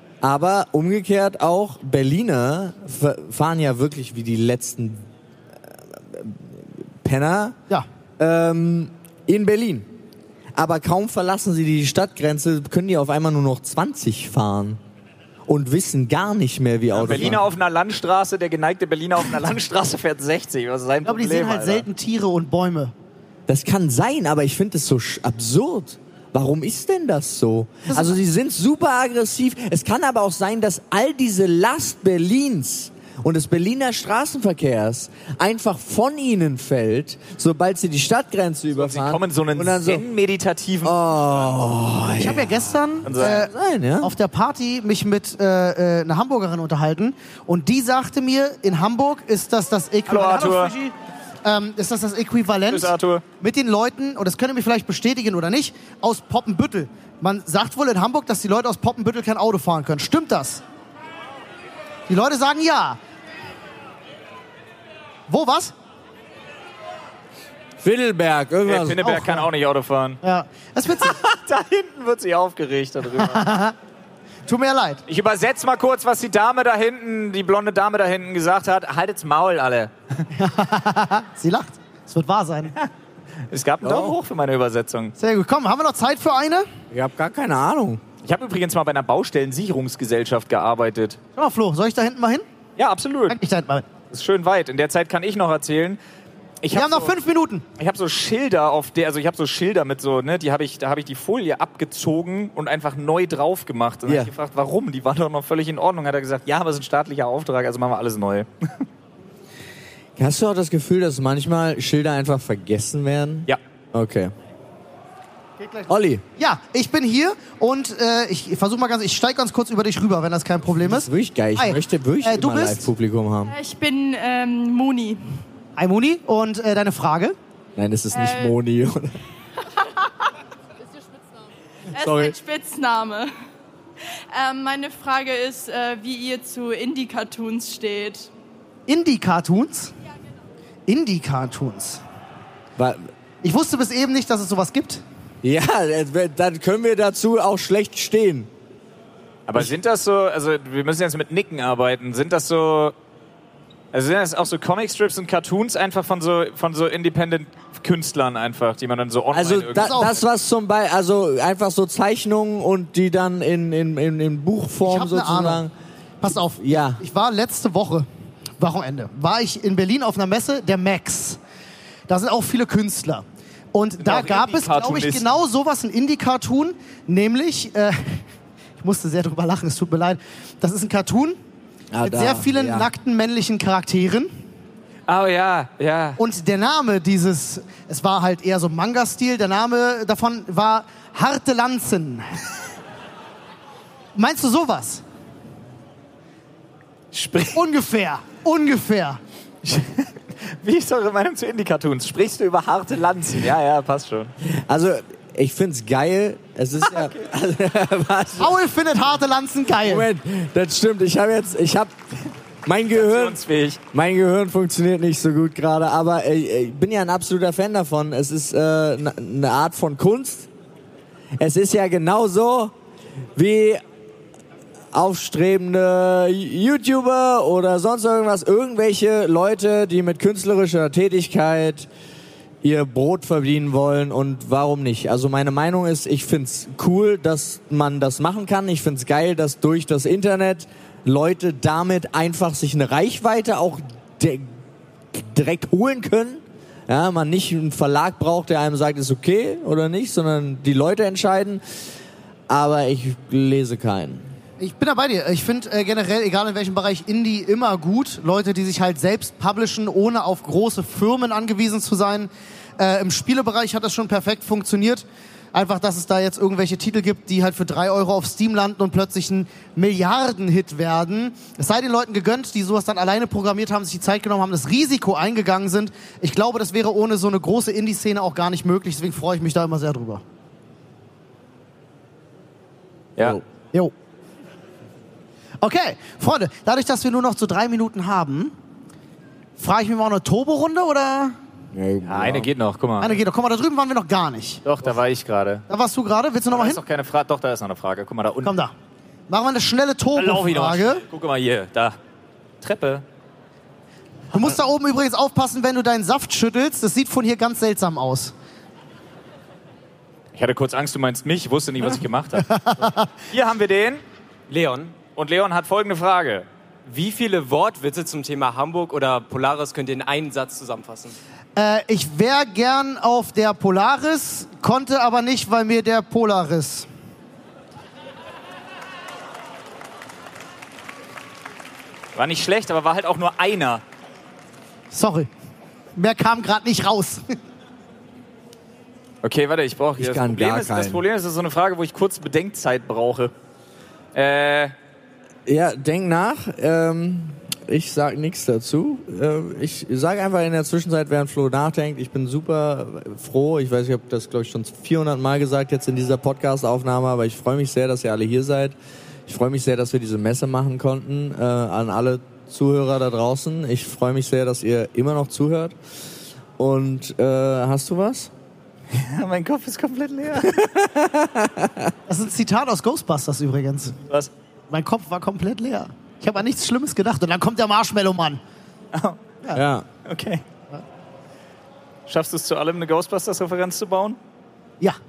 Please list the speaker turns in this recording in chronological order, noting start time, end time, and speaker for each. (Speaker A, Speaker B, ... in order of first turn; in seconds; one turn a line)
Speaker A: 0.2-5.0
Speaker A: 5.9-7.6
Speaker A: 8.2-9.9
Speaker A: 10.5-14.8
Speaker A: 15.5-17.4
Speaker B: 16.9-21.9
Speaker C: 21.0-22.9
Speaker A: 23.5-40.0
Speaker C: 27.9-28.1
Speaker B: 38.8-41.5
Speaker A: 40.8-44.1
Speaker C: 42.2-60.6
Speaker B: 43.0-43.5
Speaker B: 50.1-50.7
Speaker B: 52.7-53.2
Speaker C: 62.1-63.0
Speaker C: 65.3-65.7
Speaker A: 67.8-69.0
Speaker B: 68.6-70.2
Speaker C: 69.0-69.5
Speaker C: 70.2-71.2
Speaker B: 70.9-73.5
Speaker C: 73.1-73.7
Speaker C: 74.5-75.0
Speaker B: 75.1-79.9
Speaker C: 80.3-82.7
Speaker B: 83.5-85.1
Speaker A: 83.8-84.2
Speaker C: 85.2-86.7
Speaker A: 86.9-88.0
Speaker B: 88.2-91.2
Speaker C: 91.4-92.5
Speaker B: 92.8-93.4
Speaker C: 93.3-93.8
Speaker B: 94.1-96.0
Speaker B: 96.6-97.1
Speaker C: 96.7-97.6
Speaker B: 97.8-108.5
Speaker A: 104.0-104.3
Speaker A: 110.2-114.3
Speaker C: 115.6-122.9
Speaker A: 115.9-116.2
Speaker A: 120.8-123.5
Speaker D: 123.5-125.4
Speaker C: 125.8-127.3
Speaker A: 127.8-129.2
Speaker D: 128.1-128.5
Speaker D: 131.9-133.3
Speaker A: 131.9-132.4
Speaker D: 134.3-138.3
Speaker C: 138.9-139.9
Speaker C: 140.9-142.0
Speaker A: 142.8-143.1
Speaker C: 143.4-145.0
Speaker A: 145.4-148.5
Speaker B: 149.5-152.9
Speaker B: 153.9-160.2
Speaker A: 159.3-165.7
Speaker C: 159.8-160.2
Speaker C: 164.8-165.6
Speaker C: 166.2-168.1
Speaker A: 166.5-167.0
Speaker C: 168.6-171.4
Speaker C: 172.1-178.2
Speaker B: 174.0-175.3
Speaker C: 178.8-181.4
Speaker A: 181.9-182.9
Speaker C: 182.0-184.3
Speaker B: 185.1-186.2
Speaker C: 186.2-192.3
Speaker C: 194.2-195.0
Speaker B: 197.1-197.6
Speaker C: 197.5-199.2
Speaker B: 199.6-200.1
Speaker B: 200.6-204.3
Speaker A: 204.5-208.6
Speaker B: 206.9-207.1
Speaker C: 208.4-210.1
Speaker A: 209.8-211.9
Speaker A: 212.6-213.4
Speaker B: 212.9-213.8
Speaker A: 213.9-220.5
Speaker A: 221.4-222.7
Speaker A: 223.3-223.8
Speaker A: 224.9-231.9
Speaker A: 232.6-244.5
Speaker A: 245.1-251.6
Speaker A: 252.5-254.2
Speaker C: 254.6-280.2
Speaker C: 285.6-288.5
Speaker C: 289.6-291.4
Speaker A: 291.7-292.5
Speaker B: 292.1-293.2
Speaker C: 293.0-294.6
Speaker B: 294.6-295.6
Speaker C: 295.7-296.8
Speaker B: 296.5-298.5
Speaker C: 298.4-298.7
Speaker C: 299.3-301.0
Speaker B: 300.1-302.0
Speaker B: 302.6-303.0
Speaker C: 304.3-308.3
Speaker B: 310.3-314.0
Speaker C: 312.4-313.1
Speaker E: 314.5-314.9
Speaker B: 315.1-316.5
Speaker E: 316.9-321.1
Speaker C: 321.6-326.9
Speaker B: 332.1-333.8
Speaker C: 334.9-335.3
Speaker C: 335.9-337.2
Speaker B: 339.2-343.3
Speaker A: 340.0-341.0
Speaker B: 344.1-344.7
Speaker A: 345.4-358.8
Speaker A: 359.3-365.7
Speaker A: 366.6-368.3
Speaker B: 368.9-370.5
Speaker A: 370.4-371.9
Speaker C: 372.1-373.9
Speaker C: 374.7-378.4
Speaker B: 378.9-379.2
Speaker A: 379.5-379.9
Speaker B: 380.0-380.4
Speaker B: 382.1-384.2